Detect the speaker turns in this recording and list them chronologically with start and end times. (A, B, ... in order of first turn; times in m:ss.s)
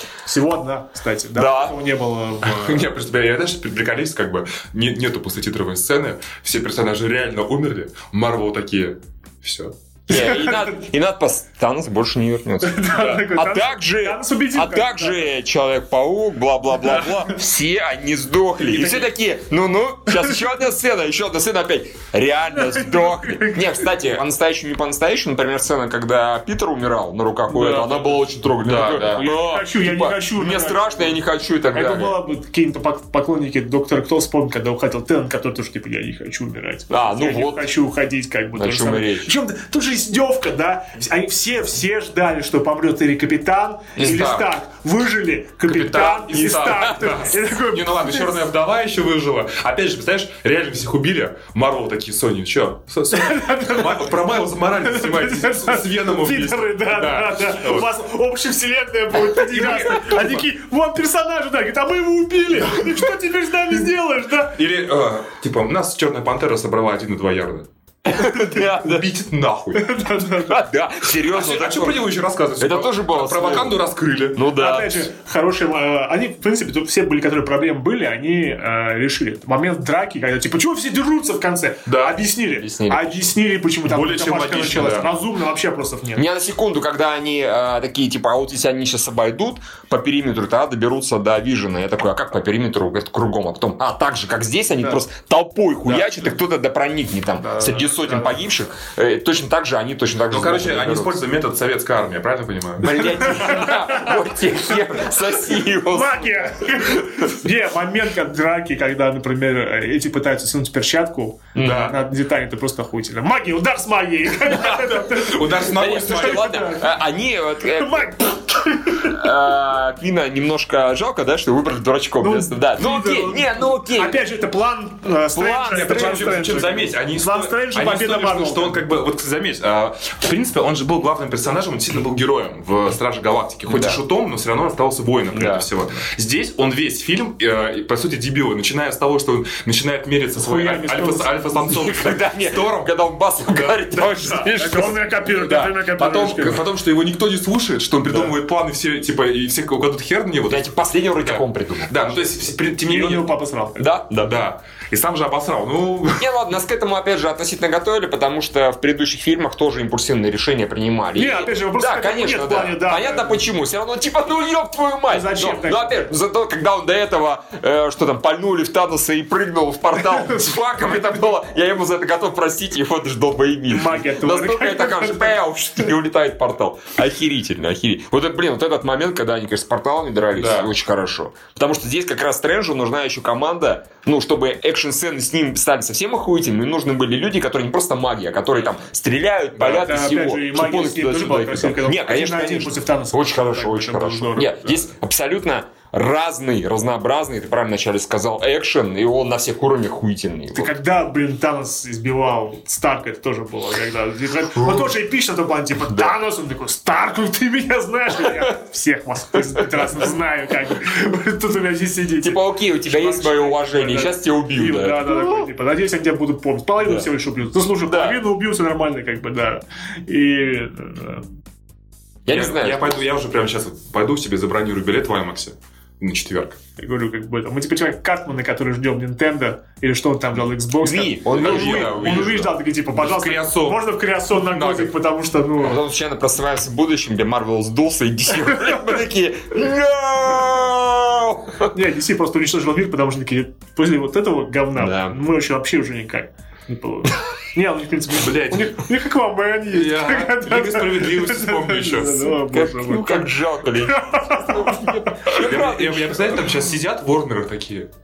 0:00.2-0:02.8 A
0:01.3-0:01.8 B
0:02.4-0:09.7 C
0:10.1-0:32.1 B
0:10.1-0:10.8 A
0:12.6-0:15.3 A
0:22.5-0:23.9 A
0:27.5-0:28.2 A
0:28.6-0:29.3 C
0:28.9-0:31.2 A
0:31.7-0:48.4 A
0:36.9-0:37.7 B
0:38.5-0:39.3 B
0:44.0-0:44.3 B
0:44.0-0:44.4 C
0:45.6-0:57.9 C
0:46.4-0:47.0 B
0:53.1-0:54.2 A
0:54.8-1:04.6 A
0:59.3-1:00.4 C
1:04.5-1:07.7 C
1:08.0-1:09.1 B
1:08.4-1:09.9 C
1:09.7-1:10.6 A
1:10.4-1:12.0 B
1:11.2-1:14.4 C
1:12.6-1:13.8 B
1:14.3-1:15.1 B
1:14.5-1:26.2 A
1:21.8-1:22.2 C
1:22.6-1:23.3 B
1:23.8-1:25.1 C
1:26.2-1:41.2 B
1:37.4-1:38.4 A
1:40.3-1:43.6 C
1:42.8-1:47.3 B
1:43.0-1:44.4 A
1:45.6-1:57.0 A
1:51.5-1:51.9 B
1:51.6-1:52.0 C
1:54.5-1:56.6 C
1:55.7-1:58.3 B
1:57.7-1:59.2 A
1:59.0-2:04.2 B
2:02.2-2:08.8 A
2:05.3-2:06.3 B
2:05.5-2:33.3 C
2:13.7-2:14.0 B
2:15.3-2:15.7 B
2:20.4-2:21.3 A
2:21.7-2:25.6 B
2:24.5-2:26.6 A
2:30.5-2:32.2 B
2:32.9-2:33.8 A
2:33.8-2:34.4 B
2:34.2-2:36.3 C
2:36.2-3:20.7 B
2:41.2-2:43.5 A
2:45.1-2:46.1 A
2:53.7-2:55.8 A
3:00.4-3:00.7 C
3:09.6-3:09.8 C
3:09.6-3:14.9 A
3:20.5-3:41.3 A
3:24.6-3:24.9 B
3:29.5-3:30.1 B
3:32.2-3:35.4 B
3:36.8-3:37.1 B
3:37.8-3:38.2 B
3:42.2-3:43.0 B
3:42.3-3:46.6 C
3:46.8-3:55.8 A
3:50.8-3:52.5 B
3:51.3-3:53.8 C
3:54.4-3:54.9 C
3:55.6-4:01.7 B
4:01.7-4:15.4 A
4:04.8-4:05.2 B
4:08.1-4:08.9 C
4:09.7-4:12.4 C
4:12.4-4:16.5 B
4:15.3-4:17.9 C